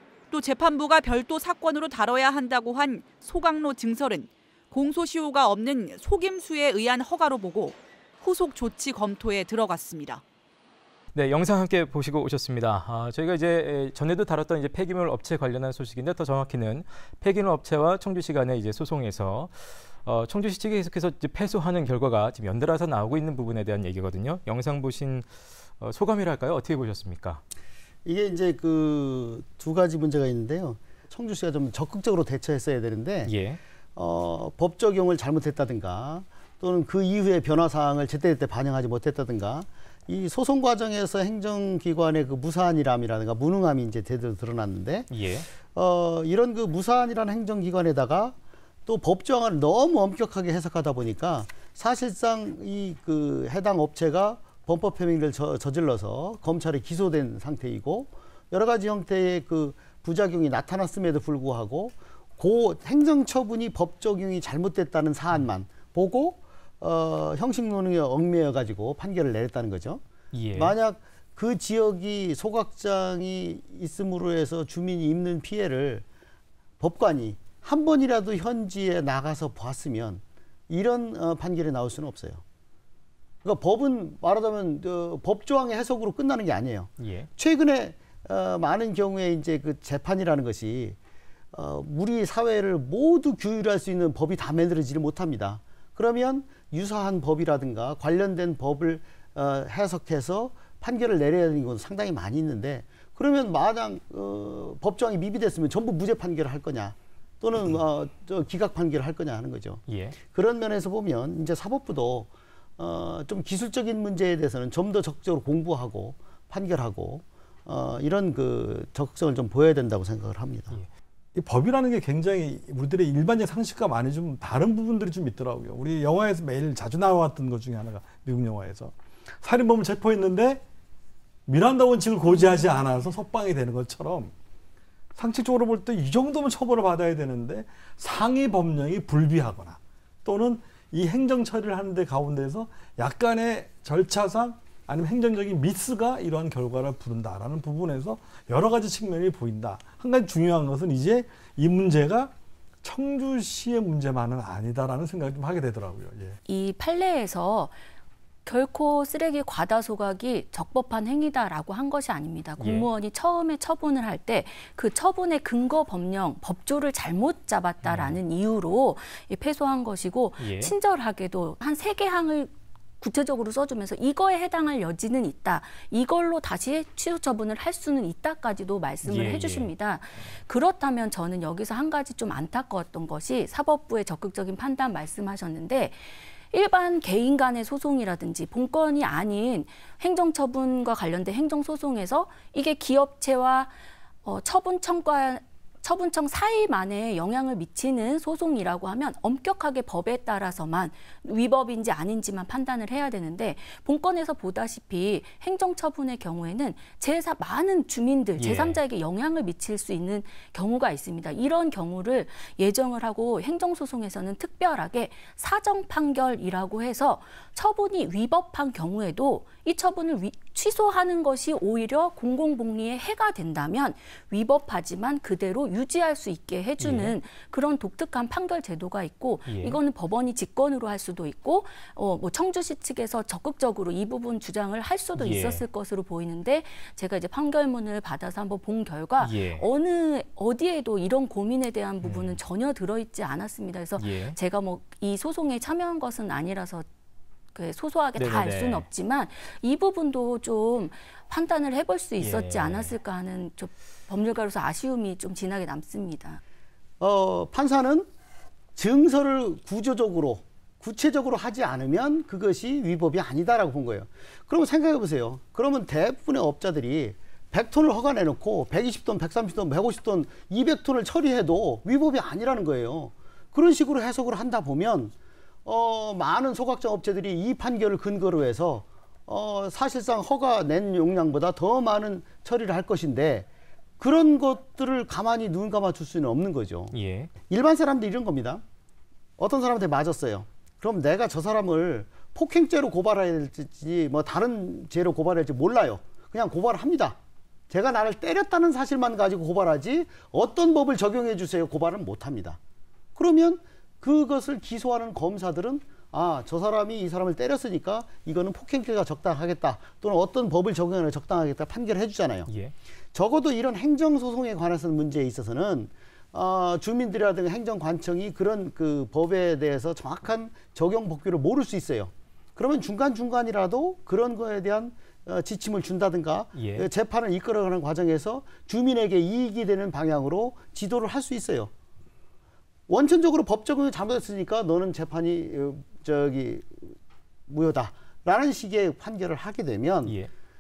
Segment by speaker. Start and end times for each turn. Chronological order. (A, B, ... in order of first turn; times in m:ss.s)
0:00.3-0:10.2 A
0:11.1-0:27.4 B
0:28.0-0:33.3 C
0:33.2-0:33.6 B
0:34.0-1:10.0 C
0:45.1-0:45.5 B
1:10.3-1:10.7 B
1:10.5-1:16.0 C
1:16.8-1:22.4 C
1:23.4-1:31.0 C
1:27.0-1:27.3 B
1:31.5-2:00.8 C
1:49.9-1:50.2 B
2:01.3-2:10.6 D
2:11.5-2:14.3 D
2:15.2-2:32.3 D
2:32.8-2:36.4 D
2:36.4-2:37.7 E
2:38.4-4:06.8 E
2:42.6-2:42.9 B
2:47.8-2:48.2 B
2:50.4-2:50.7 B
2:59.0-2:59.7 B
3:28.4-3:28.8 B
3:46.8-3:47.1 B
3:49.4-3:49.8 B
3:55.2-3:55.6 B
3:59.2-3:59.6 B
4:02.0-4:02.4 B
4:04.0-4:04.4 B
4:07.5-4:16.4 E
4:08.2-4:08.8 B
4:12.2-4:12.9 B
4:17.0-4:18.1 C
4:18.8-4:35.1 C
4:35.6-4:43.5 C
4:44.0-4:46.9 C
4:46.9-4:47.3 B
4:47.5-4:48.6 C
4:49.4-4:57.2 C
4:57.7-5:02.6 C
5:03.1-5:12.5 C
5:12.5-5:12.7 B
5:13.1-5:31.7 C
5:26.5-5:26.9 B
5:32.9-5:37.0 C
5:37.5-5:40.2 C
5:40.0-5:40.3 B